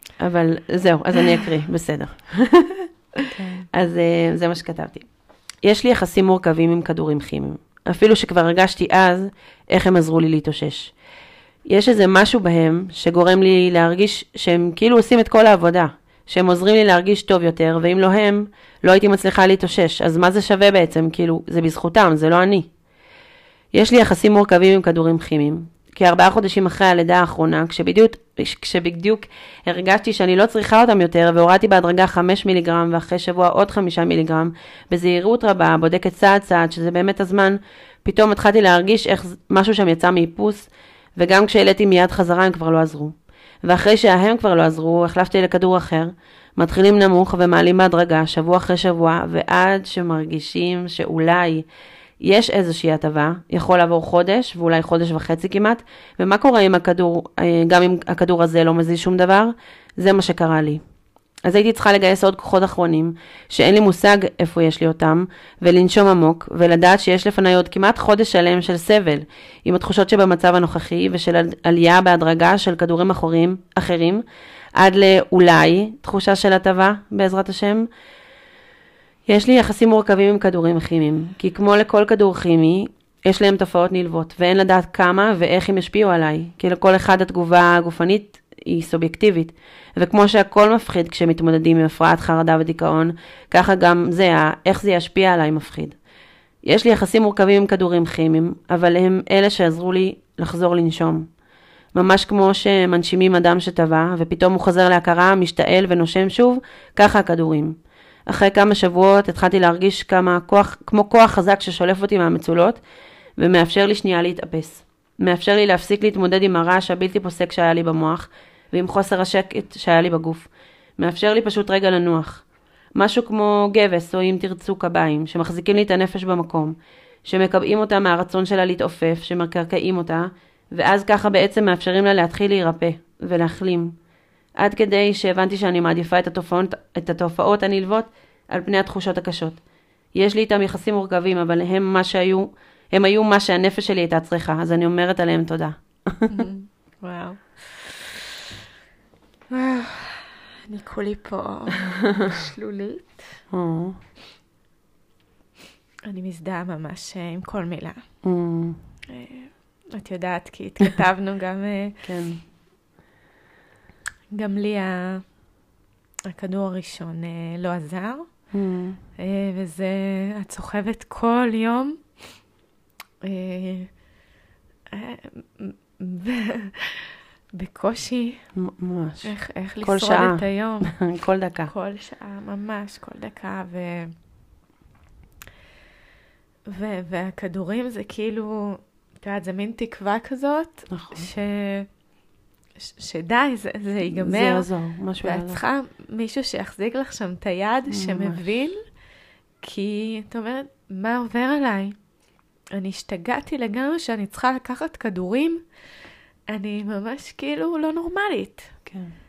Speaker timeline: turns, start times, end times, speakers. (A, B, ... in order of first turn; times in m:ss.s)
0:00.2-0:05.0 A
0:03.3-0:03.7 B
0:05.6-0:10.9 A
0:11.6-0:22.7 A
0:23.7-0:51.6 A
0:52.2-1:00.8 A
1:01.4-1:14.2 A
1:14.8-1:17.9 A
1:19.2-1:36.0 A
1:36.6-1:41.3 A
1:41.9-1:52.8 A
1:53.4-2:02.4 A
2:03.0-2:13.9 A
2:14.6-2:19.6 A
2:20.1-2:26.4 A
2:26.3-2:28.2 B
2:29.5-2:33.4 B
2:33.5-2:34.0 A
2:36.0-2:38.1 B
2:38.2-2:38.8 A
2:39.1-2:42.0 B
2:42.0-2:42.4 A
2:44.3-2:45.2 B
2:46.3-2:48.3 B
2:48.5-2:49.0 A
2:49.2-2:52.0 B
2:53.2-2:53.9 B
2:54.9-2:58.5 B
2:58.5-3:01.7 A
2:59.2-3:01.0 B
3:01.7-3:04.1 B
3:06.7-3:11.9 B
3:10.9-3:11.3 A
3:12.8-3:14.7 B
3:14.0-3:15.6 A
3:15.2-3:18.8 B
3:17.9-3:18.4 A
3:19.6-3:22.0 B
3:22.7-3:25.6 B
3:26.5-3:28.8 B
3:28.9-3:29.1 A